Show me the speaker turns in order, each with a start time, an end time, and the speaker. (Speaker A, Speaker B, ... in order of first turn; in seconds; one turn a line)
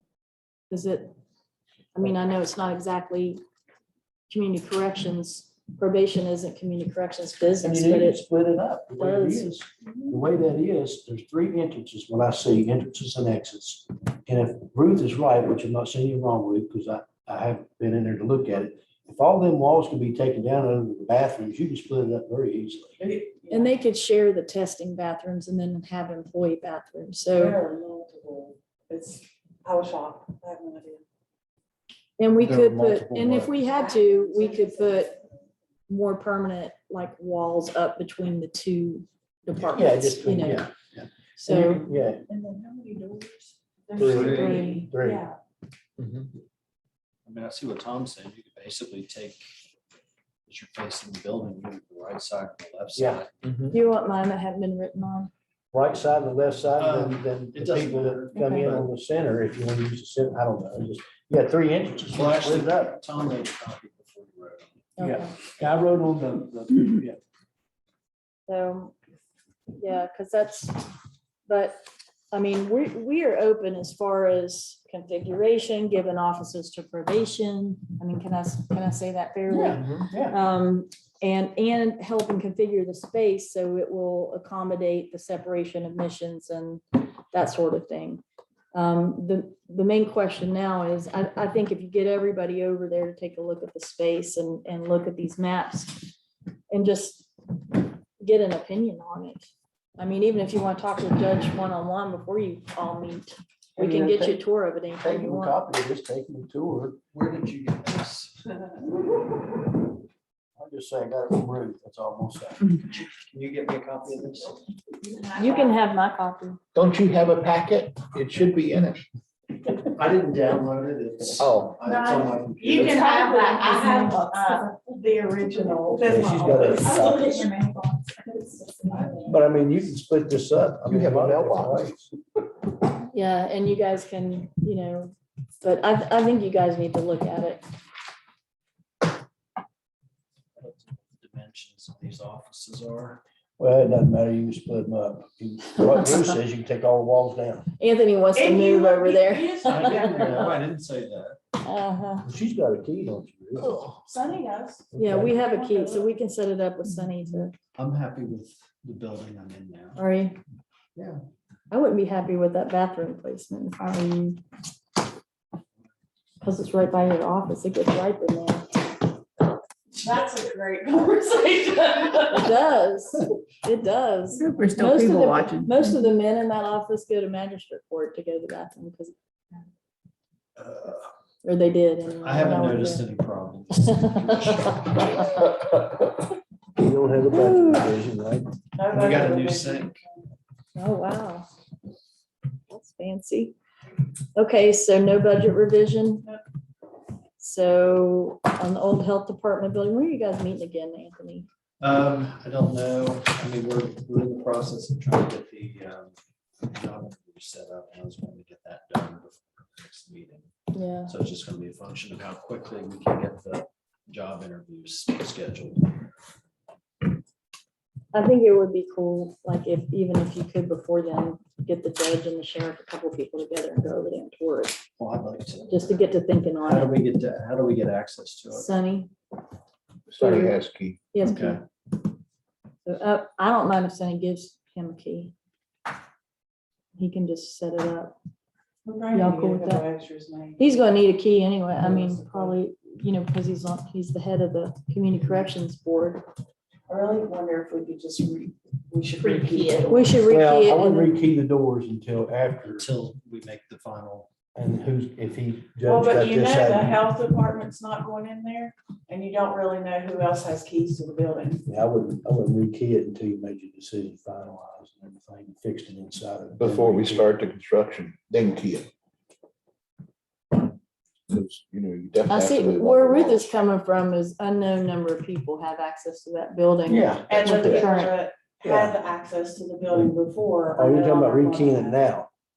Speaker A: 0.7-1.1
Speaker A: 1.9-3.4
Speaker A: 4.3-8.2
Speaker B: 7.6-23.0
Speaker A: 9.0-9.5
Speaker C: 23.0-23.7
Speaker A: 23.5-27.6
Speaker C: 27.3-31.0
Speaker A: 32.2-35.2
Speaker B: 32.4-33.6
Speaker C: 33.9-34.7
Speaker A: 35.9-40.7
Speaker B: 39.6-42.2
Speaker A: 41.4-41.9
Speaker C: 41.7-45.4
Speaker B: 44.0-45.2
Speaker D: 44.1-44.6
Speaker A: 44.2-44.9
Speaker E: 46.0-46.3
Speaker D: 47.2-49.4
Speaker D: 50.5-53.4
Speaker B: 52.9-53.2
Speaker A: 53.7-55.3
Speaker B: 55.7-63.0
Speaker D: 56.8-58.9
Speaker A: 58.3-58.6
Speaker D: 62.1-64.9
Speaker A: 65.0-65.3
Speaker B: 65.0-67.2
Speaker A: 68.5-68.9
Speaker A: 69.7-70.8
Speaker A: 71.5-88.2
Speaker B: 79.5-80.3
Speaker A: 88.7-96.1
Speaker A: 96.7-105.6
Speaker B: 103.8-104.4
Speaker B: 105.0-107.0
Speaker D: 107.1-108.8
Speaker B: 110.6-112.7
Speaker D: 112.9-114.6
Speaker C: 115.1-115.8
Speaker A: 115.3-116.6
Speaker E: 116.7-119.0
Speaker D: 119.8-123.1
Speaker E: 121.4-121.8
Speaker F: 121.9-124.7
Speaker C: 122.6-127.0
Speaker B: 126.0-127.4
Speaker F: 126.3-129.3
Speaker D: 128.9-129.2
Speaker B: 129.2-132.1
Speaker E: 130.9-131.8
Speaker A: 133.1-137.6
Speaker D: 140.6-143.2
Speaker B: 143.6-147.7
Speaker A: 147.8-150.5
Speaker C: 148.3-150.4
Speaker D: 149.6-151.4
Speaker A: 151.6-152.3
Speaker B: 152.2-153.8
Speaker C: 153.8-156.1
Speaker B: 154.9-155.4
Speaker A: 154.9-157.5
Speaker D: 157.7-160.0
Speaker A: 159.9-160.4
Speaker D: 160.9-161.2
Speaker A: 161.7-164.4
Speaker A: 166.4-168.7
Speaker C: 169.9-172.5
Speaker A: 172.3-179.1
Speaker F: 174.4-175.7
Speaker D: 180.6-181.1
Speaker A: 181.4-183.0
Speaker D: 182.2-185.5
Speaker B: 186.8-188.5
Speaker A: 187.2-187.9
Speaker C: 188.8-190.2
Speaker D: 188.9-190.0
Speaker A: 190.7-191.5
Speaker A: 192.7-193.6
Speaker A: 194.3-196.3
Speaker A: 197.4-201.5
Speaker D: 201.8-210.5
Speaker A: 210.7-211.1
Speaker D: 211.1-216.1
Speaker A: 218.1-224.8
Speaker D: 225.0-226.0
Speaker A: 225.7-227.0
Speaker D: 226.6-228.7
Speaker A: 228.5-229.1
Speaker E: 230.1-231.0
Speaker A: 230.2-230.6
Speaker A: 231.1-231.6
Speaker D: 231.2-231.6
Speaker A: 232.8-235.3
Speaker A: 236.9-238.2
Speaker C: 238.8-240.6
Speaker A: 239.1-239.8
Speaker A: 240.6-246.3
Speaker C: 241.8-242.6
Speaker C: 246.9-250.1
Speaker F: 249.2-250.0
Speaker A: 249.9-251.2
Speaker B: 250.2-252.9
Speaker D: 252.8-254.3
Speaker B: 254.5-257.0
Speaker C: 255.8-261.6
Speaker B: 261.7-267.3
Speaker E: 266.6-268.9
Speaker E: 271.3-273.5
Speaker A: 272.3-278.2
Speaker B: 276.9-277.9
Speaker C: 277.3-282.0
Speaker B: 278.6-278.9
Speaker B: 280.7-282.3